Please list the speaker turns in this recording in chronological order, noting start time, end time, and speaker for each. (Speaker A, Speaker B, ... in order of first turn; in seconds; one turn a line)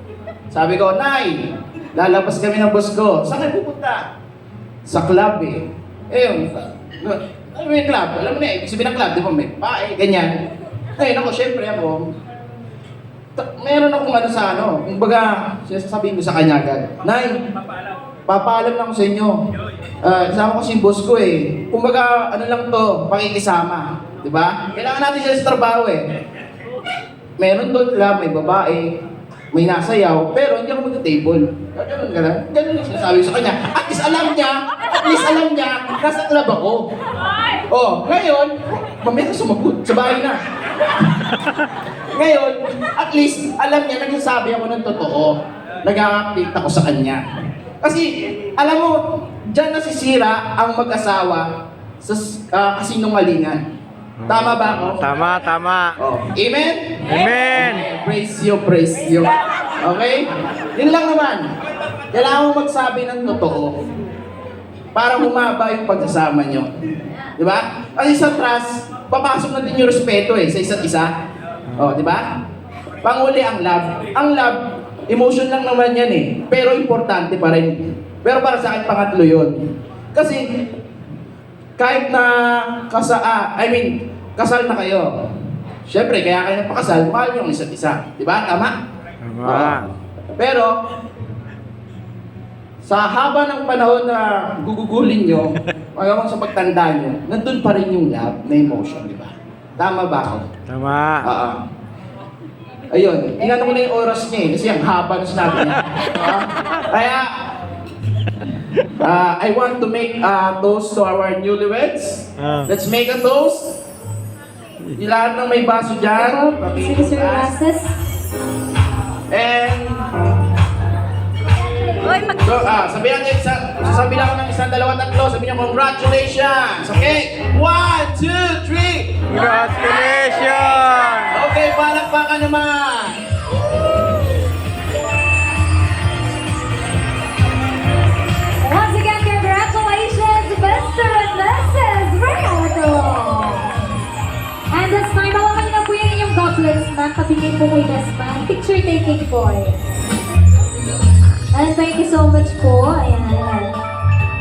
Speaker A: 0.5-4.1
Speaker A: 4.8-10.3
Speaker A: 11.0-12.1
Speaker A: 13.4-17.3
Speaker A: 18.3-19.4
Speaker A: 20.0-26.0
Speaker A: 27.4-29.0
Speaker A: 29.5-36.8
Speaker A: 37.7-40.4
Speaker A: 42.1-45.3
Speaker A: 45.8-47.2
Speaker A: 47.8-51.4
Speaker A: 52.0-53.6
Speaker B: 54.2-56.0
Speaker A: 54.3-55.0
Speaker A: 56.0-61.5
Speaker B: 57.1-57.8
Speaker A: 62.1-63.8
Speaker A: 64.9-66.7
Speaker A: 67.4-71.1
Speaker A: 71.8-72.4
Speaker A: 73.0-74.6
Speaker A: 75.1-79.5
Speaker A: 80.1-80.4
Speaker A: 81.8-85.1
Speaker A: 85.9-88.7
Speaker B: 89.2-89.9
Speaker A: 89.4-90.7
Speaker A: 92.8-100.5
Speaker B: 100.7-101.3
Speaker A: 101.2-101.6
Speaker A: 102.9-107.5
Speaker A: 109.0-113.8
Speaker B: 112.4-112.7
Speaker A: 115.0-117.6
Speaker C: 116.2-117.9
Speaker A: 119.3-120.1
Speaker A: 122.4-129.4
Speaker B: 129.4-131.3
Speaker A: 131.3-133.2
Speaker C: 138.6-143.7
Speaker C: 144.7-149.8
Speaker C: 151.5-153.7